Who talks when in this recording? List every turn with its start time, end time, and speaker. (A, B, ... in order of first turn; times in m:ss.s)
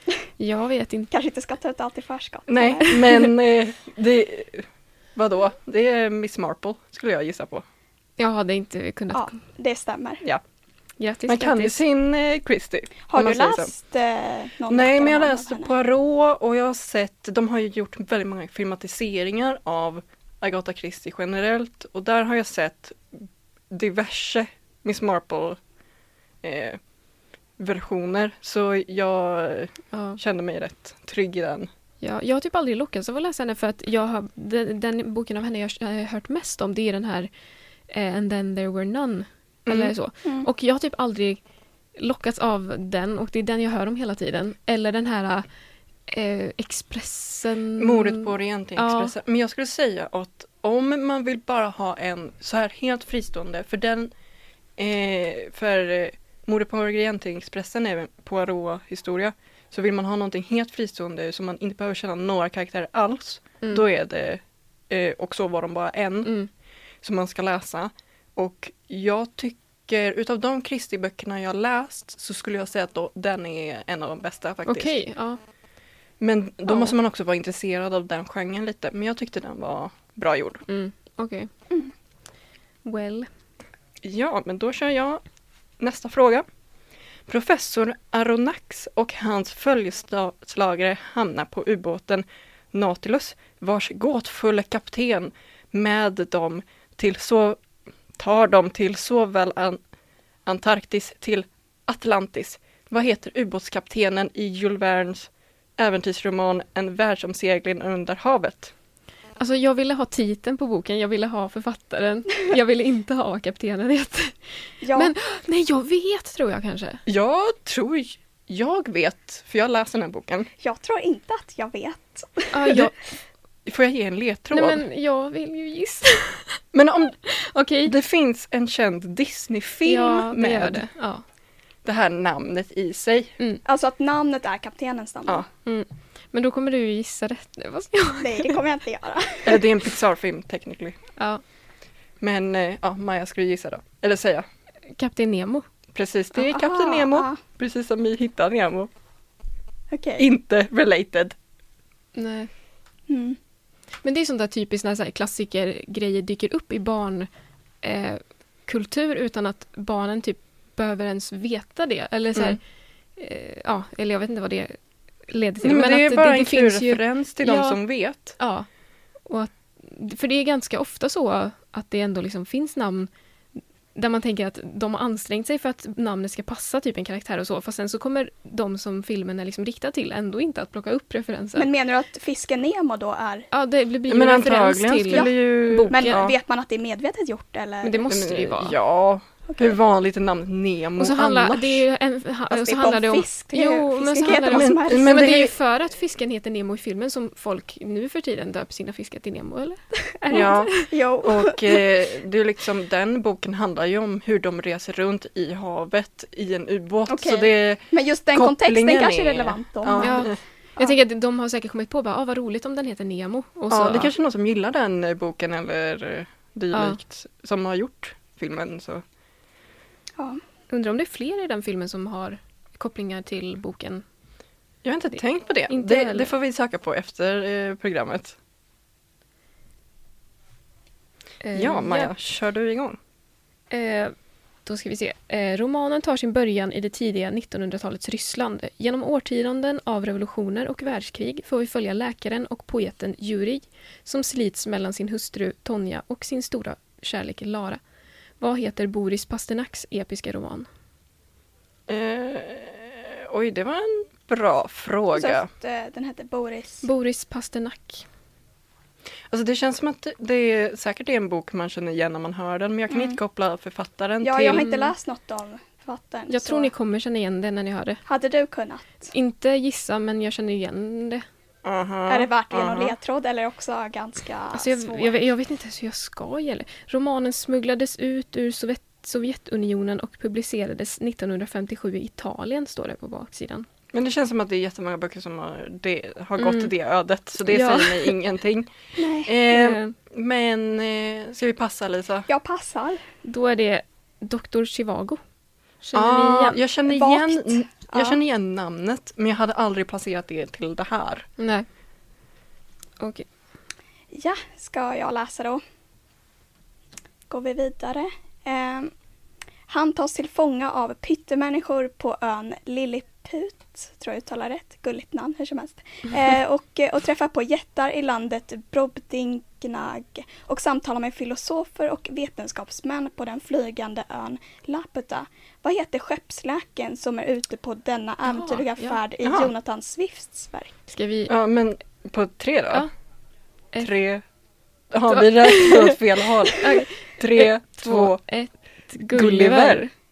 0:00.4-0:01.1 A
0:01.1-0:03.3 B
0:02.5-0:07.6 C
0:08.2-0:09.4 A
0:09.1-0:10.2 B
0:11.0-0:11.8 A
0:11.3-0:13.7 C
0:13.1-0:15.7 B
0:14.7-0:25.6 C
0:26.4-0:26.8 C
0:27.6-0:31.7 C
0:29.9-0:30.2 A
0:32.0-0:37.3 A
0:37.9-0:41.4 A
0:39.6-0:39.9 C
0:42.0-0:45.4 A
0:46.1-0:49.1 A
0:47.8-0:54.1 C
0:54.8-1:06.3 C
1:06.2-1:06.5 A
1:07.0-1:15.0 C
1:14.7-1:15.4 A
1:16.2-1:20.6 C
1:20.7-1:21.5 A
1:22.8-1:23.3 A
1:24.0-1:25.2 C
1:25.8-1:26.4 C
1:27.3-1:37.6 C
1:38.2-1:39.8 C
1:40.4-1:48.7 C
1:49.4-1:57.0 A
1:54.8-1:55.1 B
1:57.1-2:00.5 C
2:00.6-2:02.8 B
2:02.5-2:02.9 A
2:03.6-2:04.8 C
2:04.5-2:06.6 A
2:06.7-2:07.2 C
2:07.2-2:07.9 A
2:07.8-2:10.9 C
2:09.8-2:11.2 A
2:11.8-2:13.4 C
2:13.6-2:15.4 B
2:15.6-2:18.6 A
2:18.2-2:19.6 B
2:19.4-2:21.0 C
2:21.2-2:21.4 A
2:22.2-2:24.4 C
2:25.0-2:25.6 A
2:25.9-2:28.9 C
2:26.4-2:27.4 B
2:29.9-2:30.2 B
2:30.2-2:31.4 C
2:32.1-2:32.5 A
2:33.1-2:33.4 B
2:34.0-2:37.3 A
2:37.8-2:42.6 A
2:43.2-2:44.8 A
2:45.3-2:47.8 A
2:45.6-2:48.4 C
2:48.4-2:48.7 A
2:49.2-3:01.7 A
3:01.6-3:03.5 B
3:03.5-3:06.2 A
3:04.1-3:06.4 C
3:05.9-3:08.1 B
3:07.8-3:08.8 A
3:08.1-3:11.8 C
3:09.5-3:09.8 B
3:11.0-3:20.9 A
3:12.5-3:15.4 B
3:14.4-3:15.5 C
3:20.3-3:21.8 B
3:20.3-3:30.4 C
3:27.1-3:30.3 B
3:30.0-3:34.1 A
3:33.7-3:39.0 C
3:36.7-3:37.0 A
3:40.7-3:44.0 A
3:44.8-3:48.4 C
3:45.7-3:46.3 A
3:51.4-3:52.1 A
3:51.5-3:53.0 C
3:53.7-3:54.1 A
3:54.6-4:07.8 A
4:08.4-4:10.7 A
4:11.9-4:15.5 C
4:15.1-4:16.8 B
4:16.8-4:18.0 A
4:19.3-4:24.7 C
4:22.9-4:23.2 B
4:24.2-4:26.7 B
4:24.5-4:24.9 A
4:26.3-4:28.0 A
4:28.1-4:29.1 B
4:29.1-4:31.2 A
4:31.6-4:32.9 C
4:32.1-4:35.2 B
4:34.5-4:43.6 A
4:43.9-4:48.7 C
4:46.4-4:46.7 A
4:47.4-4:48.1 A
4:49.0-4:49.3 B
4:49.2-4:52.3 C
4:49.5-4:49.9 A
4:52.3-4:53.0 B
4:53.2-4:55.2 A
4:55.8-4:56.6 A
4:55.9-5:01.3 C
4:56.9-4:58.2 B
5:01.4-5:01.6 A
5:03.0-5:03.2 A
5:04.1-5:05.6 B
5:07.3-5:08.9 B
5:09.7-5:30.7 B
5:28.2-5:29.0 A
5:29.2-5:29.5 C
5:30.9-5:31.3 A
5:31.3-5:32.9 C
5:33.8-5:34.2 C
5:34.9-5:38.2 C
5:35.1-5:36.0 A
5:36.5-5:39.9 A
5:39.1-5:39.9 C